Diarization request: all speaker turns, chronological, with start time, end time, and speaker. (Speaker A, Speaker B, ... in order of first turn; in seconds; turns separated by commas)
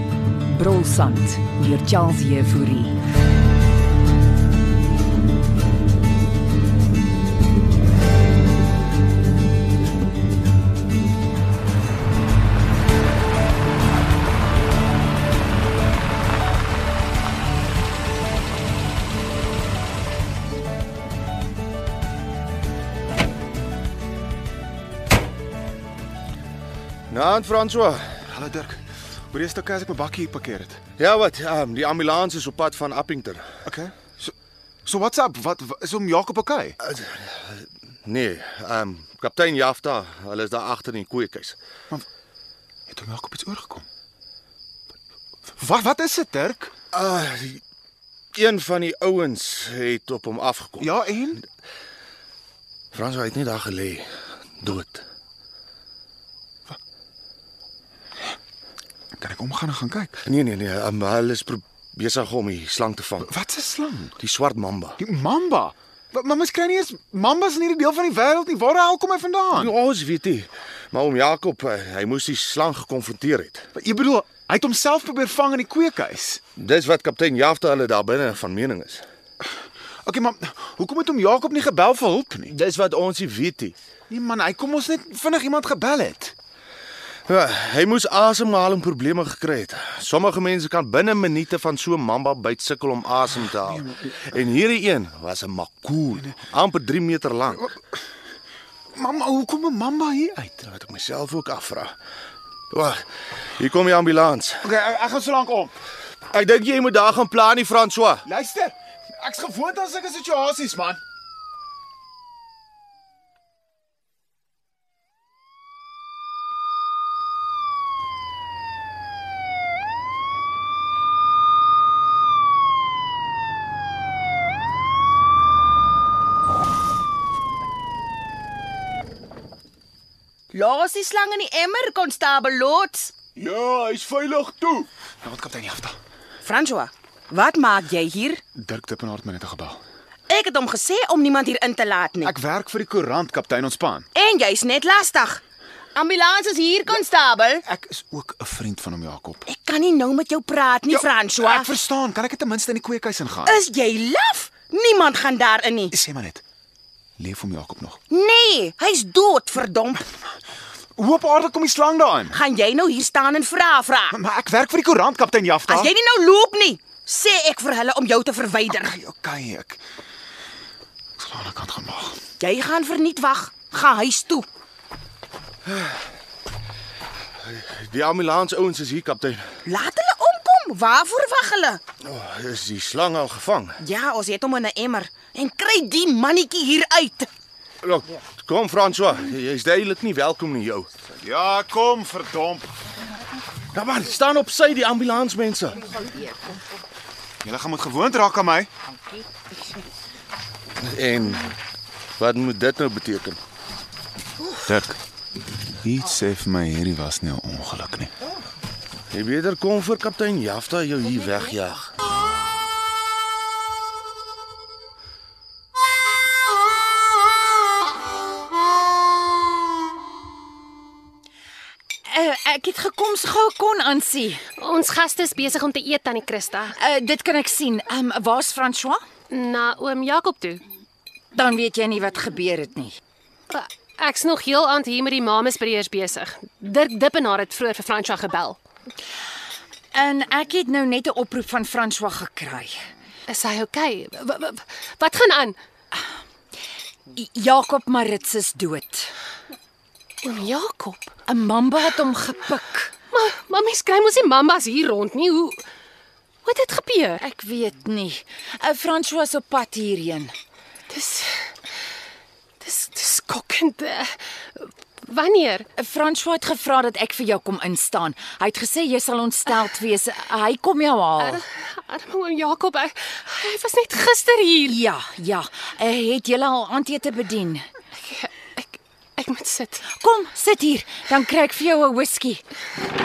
Speaker A: 0.5-1.6, Speaker B: 27.1-28.1, Speaker C: 28.3-28.8, Speaker C: 29.3-30.8, Speaker B: 31.0-33.5, Speaker C: 33.7-34.3, Speaker C: 34.8-36.7, Speaker B: 36.8-37.5, Speaker B: 38.0-41.6, Speaker C: 42.9-43.8, Speaker C: 45.5-46.7, Speaker B: 46.9-47.6, Speaker B: 48.3-50.9, Speaker C: 50.8-51.4, Speaker B: 52.9-54.1, Speaker B: 54.6-55.0, Speaker C: 59.2-60.2, Speaker B: 60.2-63.3, Speaker C: 63.2-64.1, Speaker B: 64.2-65.0, Speaker C: 65.0-69.7, Speaker B: 69.5-73.7, Speaker C: 73.8-76.4, Speaker B: 76.5-79.0, Speaker C: 80.0-82.5, Speaker B: 82.5-83.8, Speaker C: 84.1-86.3, Speaker B: 87.3-97.7, Speaker C: 98.9-100.6, Speaker B: 100.6-101.9, Speaker B: 102.7-103.0, Speaker B: 103.6-104.7, Speaker C: 104.6-105.7, Speaker B: 106.3-108.2, Speaker C: 108.2-111.0, Speaker D: 130.5-133.1, Speaker C: 133.4-135.9, Speaker D: 136.4-138.4, Speaker C: 138.6-139.8, Speaker D: 140.3-142.3, Speaker C: 142.2-144.1, Speaker D: 144.1-145.4, Speaker D: 145.9-147.6, Speaker C: 147.6-149.4, Speaker D: 149.4-151.8, Speaker C: 150.9-153.6, Speaker D: 153.4-155.9, Speaker C: 155.9-156.4, Speaker C: 157.2-158.0, Speaker D: 158.1-160.0, Speaker C: 161.0-162.3, Speaker D: 162.3-164.2, Speaker C: 164.1-165.9, Speaker D: 165.7-168.9, Speaker C: 168.8-169.8, Speaker C: 171.2-172.2, Speaker D: 172.4-174.5, Speaker B: 175.7-175.9, Speaker B: 177.4-179.5, Speaker D: 179.6-181.8, Speaker B: 182.0-183.8, Speaker D: 183.8-187.3, Speaker B: 187.8-190.9, Speaker C: 191.2-192.7, Speaker B: 193.7-195.9, Speaker C: 197.4-198.7, Speaker B: 200.8-201.5, Speaker B: 202.2-203.4, Speaker C: 204.6-205.0, Speaker C: 205.8-208.1, Speaker B: 209.1-211.9, Speaker A: 222.1-224.4, Speaker E: 224.6-226.8, Speaker A: 226.8-229.0, Speaker E: 229.3-230.6, Speaker A: 231.3-233.0, Speaker E: 233.5-238.6, Speaker A: 239.9-242.8, Speaker E: 243.3-245.6, Speaker A: 247.1-249.1, Speaker E: 250.2-251.2, Speaker A: 251.2-252.9, Speaker E: 253.1-255.6, Speaker E: 256.4-257.2, Speaker A: 257.2-260.3, Speaker E: 260.9-261.4, Speaker E: 262.6-265.7, Speaker A: 265.8-271.4, Speaker E: 271.2-274.8, Speaker A: 274.6-277.6, Speaker E: 278.0-279.9, Speaker A: 279.9-282.4